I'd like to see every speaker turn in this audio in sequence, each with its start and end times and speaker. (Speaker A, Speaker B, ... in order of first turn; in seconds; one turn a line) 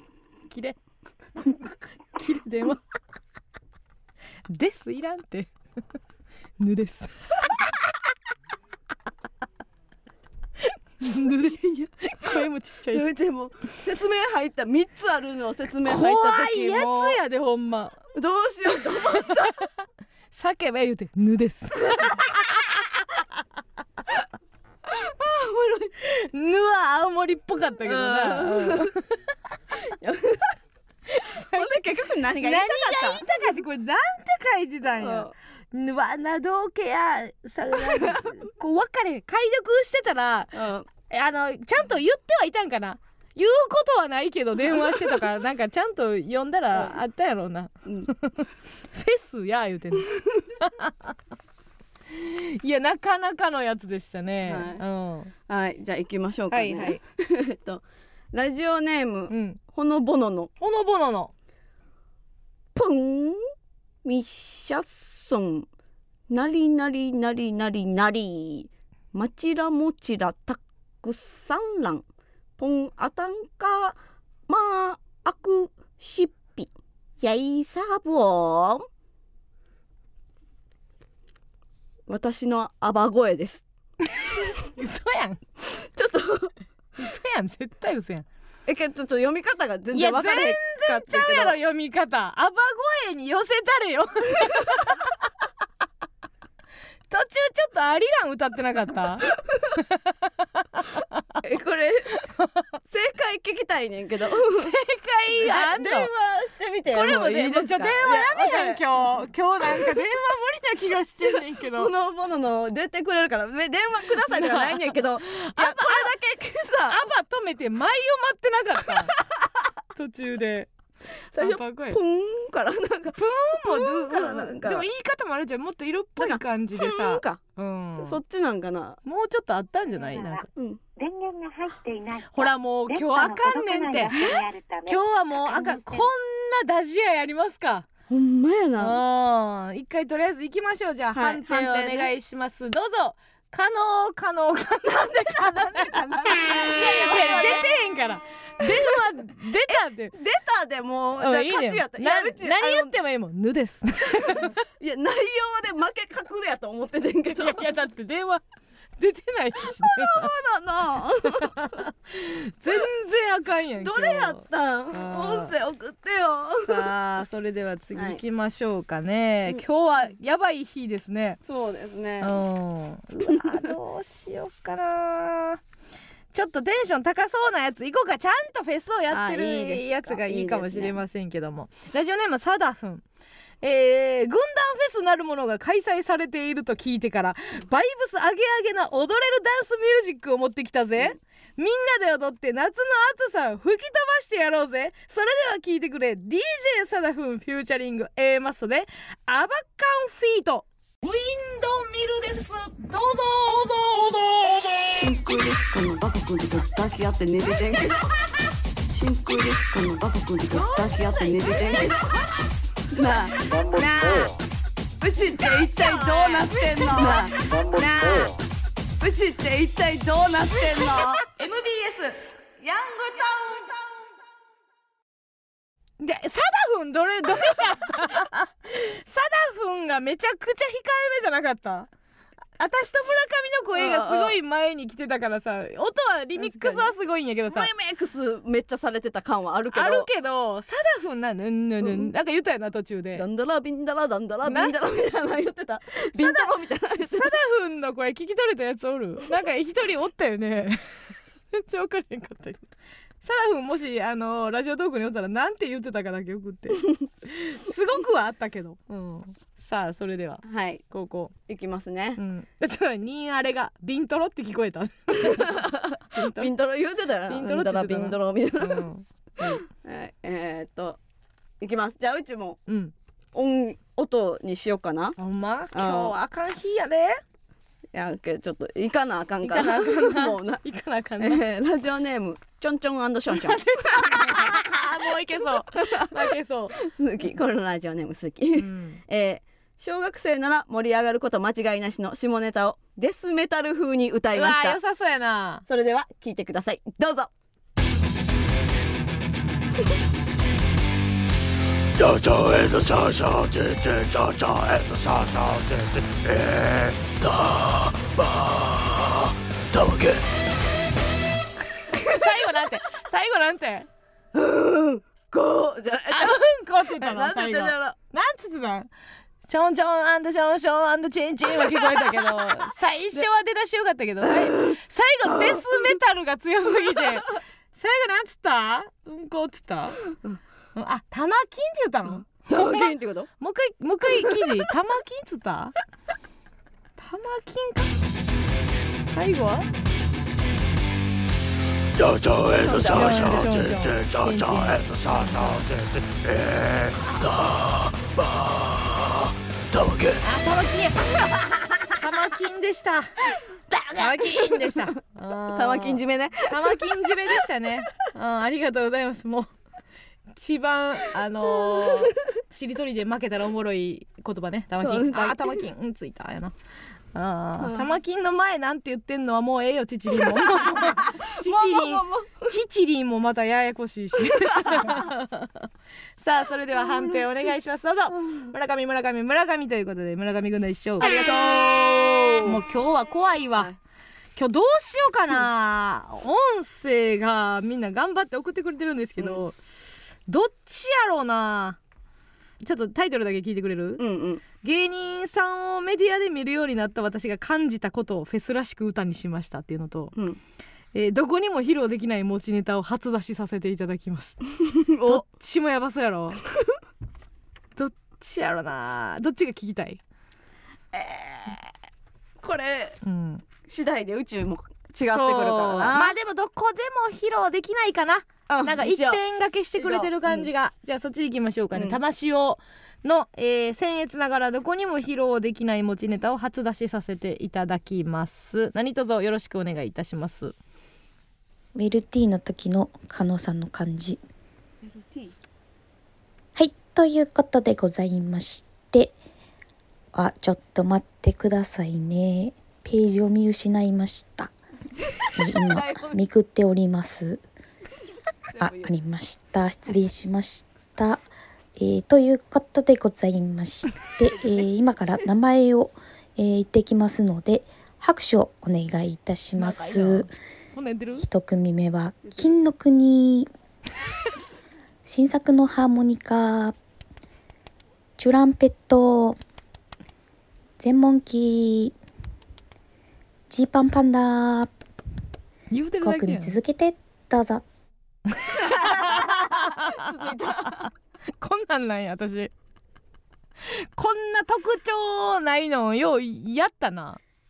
Speaker A: 0.5-0.8
Speaker A: 2.2-2.8
Speaker A: 4.5-5.5
Speaker A: 6.6-7.6
Speaker A: 10.6-13.1
Speaker B: 12.9-17.2
Speaker A: 15.8-18.0
Speaker B: 18.1-19.6
Speaker A: 18.9-19.7
Speaker A: 20.3-23.2
Speaker B: 24.9-25.9
Speaker A: 26.0-29.2
Speaker B: 27.8-28.9
Speaker B: 29.9-30.6
Speaker A: 31.1-31.8
Speaker B: 31.5-33.2
Speaker A: 32.4-40.5
Speaker B: 35.0-35.3
Speaker B: 40.5-40.9
Speaker A: 41.1-51.2
Speaker A: 52.1-55.3
Speaker B: 54.5-54.8
Speaker B: 55.5-60.5
Speaker A: 56.5-57.0
Speaker A: 59.3-59.6
Speaker A: 60.6-61.3
Speaker B: 62.8-63.4
Speaker B: 64.0-65.7
Speaker B: 66.3-72.0
Speaker B: 72.6-78.9
Speaker B: 82.1-83.7
Speaker A: 84.2-85.4
Speaker B: 85.8-86.5
Speaker A: 87.0-88.3
Speaker B: 88.7-91.5
Speaker A: 89.9-95.2
Speaker A: 97.1-101.0
Speaker B: 101.4-102.1
Speaker A: 102.2-102.6
Speaker B: 102.9-104.7
Speaker A: 104.5-106.1
Speaker B: 105.3-109.0
Speaker A: 106.9-111.9
Speaker B: 111.3-117.0
Speaker A: 114.2-116.1
Speaker A: 116.9-119.1
Speaker A: 120.0-120.7
Speaker B: 121.3-124.9
Speaker A: 121.4-122.0
Speaker A: 123.2-128.2
Speaker B: 126.2-127.4
Speaker B: 128.0-129.0
Speaker A: 129.1-130.5
Speaker C: 130.1-130.4
Speaker B: 130.6-130.8
Speaker C: 131.0-136.0
Speaker A: 132.3-134.2
Speaker B: 134.2-134.4
Speaker A: 134.9-137.9
Speaker B: 138.1-139.0
Speaker A: 138.8-150.2
Speaker B: 141.2-142.1
Speaker B: 144.8-147.7
Speaker B: 149.7-152.9
Speaker A: 151.2-154.6
Speaker B: 154.4-157.7
Speaker A: 157.3-158.4
Speaker A: 159.0-160.3
Speaker B: 159.8-161.6
Speaker A: 161.3-165.5
Speaker B: 163.8-166.9
Speaker A: 166.7-171.4
Speaker B: 167.9-168.2
Speaker B: 171.4-172.4
Speaker A: 172.2-175.6
Speaker A: 176.3-183.0
Speaker B: 179.1-181.0
Speaker A: 183.6-205.2
Speaker B: 205.0-208.0
Speaker B: 208.9-212.0
Speaker A: 210.5-212.5
Speaker B: 212.9-213.4
Speaker A: 213.1-214.3
Speaker B: 215.0-217.4
Speaker A: 215.2-218.4
Speaker B: 219.0-221.2
Speaker A: 220.8-222.2
Speaker B: 222.6-224.0
Speaker A: 226.0-231.9
Speaker A: 232.6-237.7
Speaker B: 233.8-234.4
Speaker B: 236.4-236.9
Speaker B: 237.5-240.1
Speaker A: 239.7-243.2
Speaker B: 243.2-247.3
Speaker A: 244.5-244.7
Speaker A: 246.1-246.5
Speaker A: 247.1-252.7
Speaker A: 253.2-261.3
Speaker B: 260.4-260.8
Speaker B: 261.5-262.2
Speaker A: 262.2-266.5
Speaker B: 265.2-268.9
Speaker A: 267.3-269.6
Speaker B: 269.5-271.0
Speaker B: 271.6-272.6
Speaker A: 272.7-272.9
Speaker B: 273.3-275.2
Speaker A: 275.2-277.2
Speaker B: 275.7-276.1
Speaker B: 277.9-280.6
Speaker A: 279.4-281.4
Speaker B: 281.2-284.7
Speaker A: 283.3-286.8
Speaker B: 286.8-294.8
Speaker A: 288.6-289.0
Speaker A: 294.3-295.6
Speaker B: 295.7-297.3
Speaker D: 302.0-310.2
Speaker A: 311.9-313.9
Speaker B: 314.3-317.9
Speaker A: 316.1-318.9
Speaker A: 319.4-330.0
Speaker B: 324.6-325.9
Speaker A: 330.8-335.8
Speaker B: 332.3-333.3
Speaker A: 337.0-338.0
Speaker A: 339.1-339.7
Speaker D: 342.0-350.2
Speaker B: 342.5-343.4
Speaker A: 342.8-345.7
Speaker A: 350.2-351.2
Speaker A: 351.9-359.5
Speaker B: 354.0-354.9
Speaker B: 355.5-356.8
Speaker A: 360.3-366.6
Speaker B: 364.8-365.6
Speaker A: 367.1-375.7
Speaker B: 367.6-367.9
Speaker B: 370.6-372.5
Speaker B: 374.6-375.0
Speaker A: 376.2-381.2
Speaker B: 381.0-382.6
Speaker A: 382.4-383.7
Speaker A: 384.4-389.6
Speaker A: 390.3-391.8
Speaker A: 392.6-394.0
Speaker B: 394.0-394.4
Speaker A: 394.6-400.1
Speaker A: 400.9-404.4
Speaker B: 404.6-405.2
Speaker A: 405.1-406.4
Speaker A: 407.8-410.0
Speaker B: 410.9-411.7
Speaker B: 412.4-413.0
Speaker A: 413.0-413.4
Speaker B: 413.6-416.1
Speaker A: 415.1-430.6
Speaker B: 418.5-419.2
Speaker B: 419.8-420.5
Speaker E: 431.8-434.2
Speaker B: 434.8-435.4
Speaker E: 436.6-439.1
Speaker E: 440.1-444.5
Speaker E: 445.4-447.4
Speaker B: 445.6-446.2
Speaker B: 448.5-448.9
Speaker E: 448.6-451.2
Speaker E: 451.8-460.3
Speaker A: 459.6-461.2
Speaker E: 461.2-463.5
Speaker E: 465.1-466.8
Speaker E: 468.2-469.4
Speaker E: 470.8-471.9
Speaker E: 473.5-474.7
Speaker A: 475.7-476.6
Speaker E: 476.0-477.6
Speaker A: 478.3-480.2
Speaker B: 478.6-480.9
Speaker A: 481.4-482.5
Speaker A: 483.6-487.2